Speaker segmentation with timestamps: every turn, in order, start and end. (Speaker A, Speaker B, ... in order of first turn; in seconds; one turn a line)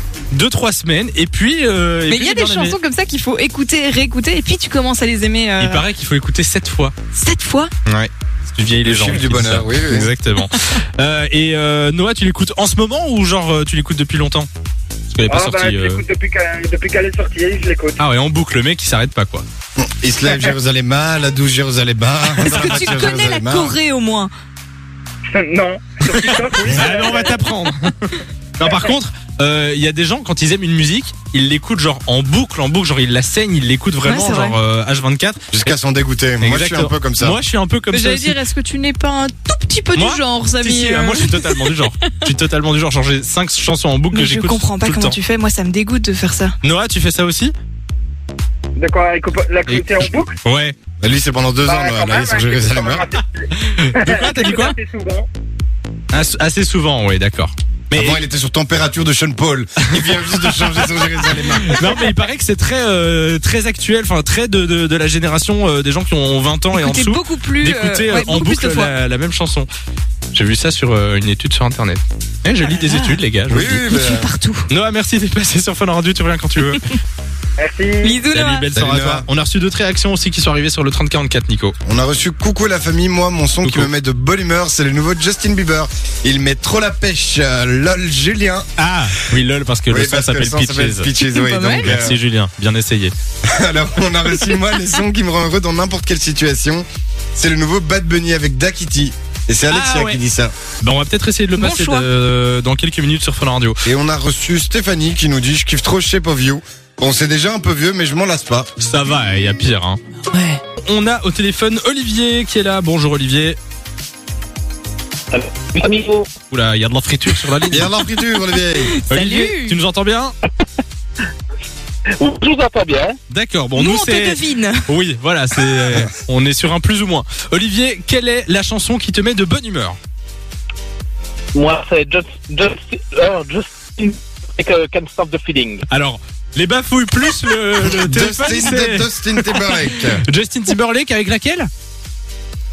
Speaker A: 0.3-2.8
Speaker B: 2.1-5.8
Speaker A: 5.6-6.9
Speaker B: 7.1-7.7
Speaker A: 7.8-14.5
Speaker C: 8.8-10.1
Speaker A: 15.1-16.0
Speaker D: 15.3-18.0
Speaker A: 18.0-19.4
Speaker C: 19.8-23.8
Speaker A: 22.4-23.1
Speaker B: 22.4-24.3
Speaker D: 25.3-27.4
Speaker A: 26.1-35.7
Speaker B: 34.0-34.6
Speaker C: 35.5-37.4
Speaker A: 36.4-38.4
Speaker B: 37.9-42.1
Speaker A: 40.0-45.2
Speaker B: 44.1-46.5
Speaker A: 46.6-47.5
Speaker D: 48.8-50.3
Speaker A: 49.7-50.7
Speaker C: 51.0-53.0
Speaker D: 51.6-55.3
Speaker A: 53.5-54.7
Speaker A: 56.1-58.2
Speaker C: 57.9-62.0
Speaker A: 59.9-69.7
Speaker B: 66.7-68.9
Speaker A: 70.3-74.0
Speaker B: 72.6-73.2
Speaker C: 73.5-74.3
Speaker B: 73.9-74.7
Speaker A: 74.7-76.9
Speaker D: 77.6-78.2
Speaker B: 78.0-78.7
Speaker A: 78.3-81.7
Speaker C: 78.7-79.2
Speaker C: 81.8-88.7
Speaker A: 83.6-83.9
Speaker A: 88.8-91.1
Speaker C: 89.9-92.2
Speaker B: 91.2-91.9
Speaker A: 91.8-93.1
Speaker C: 93.4-100.5
Speaker A: 99.7-100.2
Speaker A: 100.8-103.8
Speaker B: 101.5-102.1
Speaker C: 103.8-108.7
Speaker A: 108.8-110.0
Speaker B: 110.3-110.6
Speaker A: 110.7-113.6
Speaker E: 115.3-116.3
Speaker A: 116.5-117.9
Speaker C: 117.7-119.0
Speaker B: 118.8-119.8
Speaker A: 119.1-120.3
Speaker E: 122.2-123.2
Speaker A: 123.3-130.0
Speaker B: 123.8-124.9
Speaker E: 131.5-135.8
Speaker A: 135.9-141.7
Speaker C: 137.8-140.2